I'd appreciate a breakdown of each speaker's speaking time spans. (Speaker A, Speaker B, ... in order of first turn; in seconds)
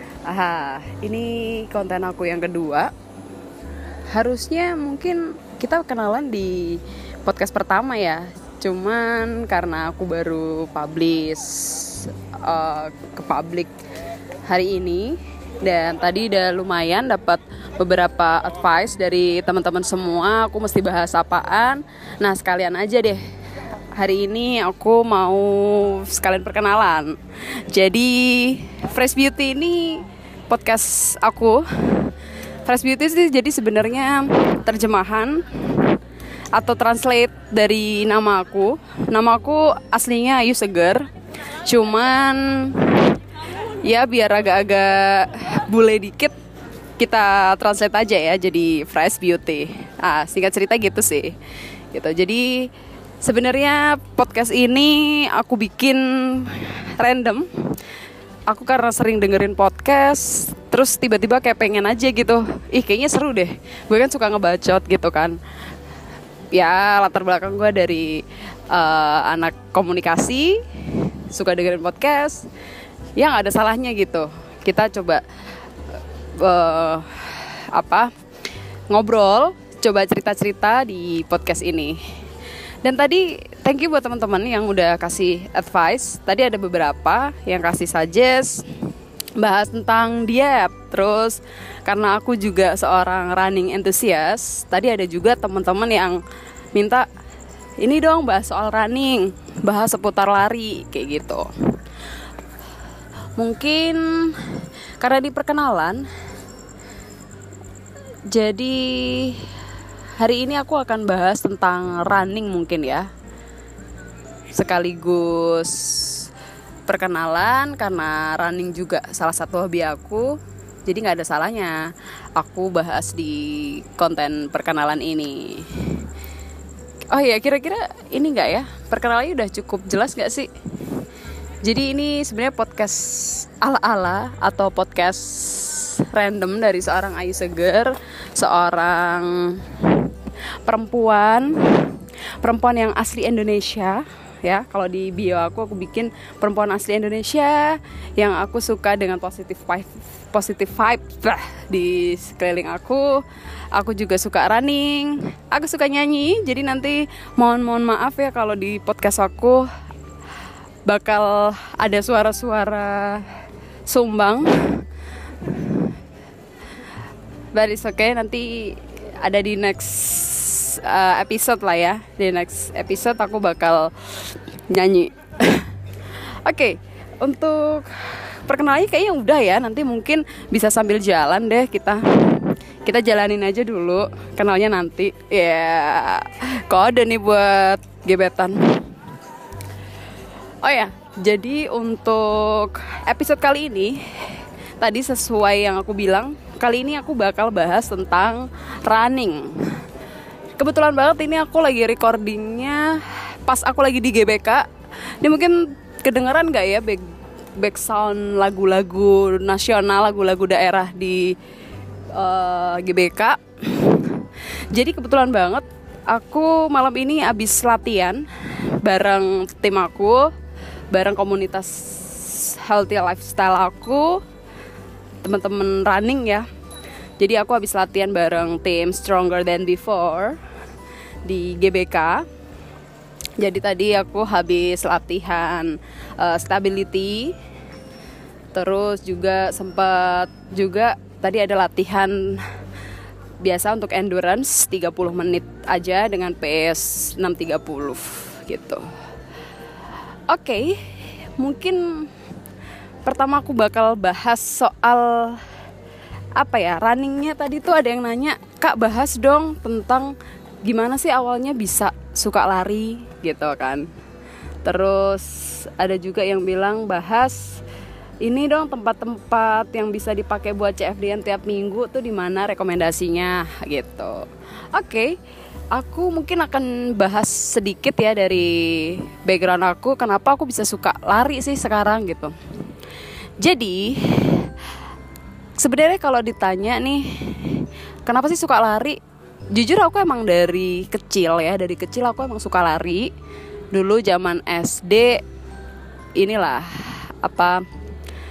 Speaker A: 0.2-2.9, 4.1-13.7, 14.4-23.2, 23.9-27.1, 27.7-32.1, 32.6-36.0, 36.5-41.1, 41.6-43.2, 43.8-46.3, 47.0-51.4, 51.9-52.7, 53.2-57.5, 58.5-65.4, 66.5-72.5, 73.2-75.2, 76.4-78.1, 78.9-82.0, 82.8-88.7, 89.4-96.2, 96.7-97.0, 97.8-101.5, 103.4-106.1, 108.3-109.5, 110.2-113.1, 114.5-116.3, 116.9-121.8, 122.4-126.0, 127.1-131.0, 131.6-140.1, 140.6-153.2, 153.7-159.7, 160.9-163.2, 163.9-164.8, 165.4-165.8, 167.5-175.7, 176.4-188.8, 190.6-194.0, 194.8-199.7, 200.6-204.7, 205.2-207.0, 207.6-211.3, 212.1-218.2, 218.8-220.3, 220.9-224.2, 225.2-226.4, 227.2-230.4, 231.2-232.2, 233.4-237.3, 238.5-242.4, 243.4-248.8, 250.3-250.8, 251.4-252.1, 253.1-255.4, 256.4-263.9, 264.6-267.6, 268.2-275.1, 275.7-282.3, 283.4-284.5, 285.6-289.0, 289.5-293.1, 293.7-295.2, 296.1-297.6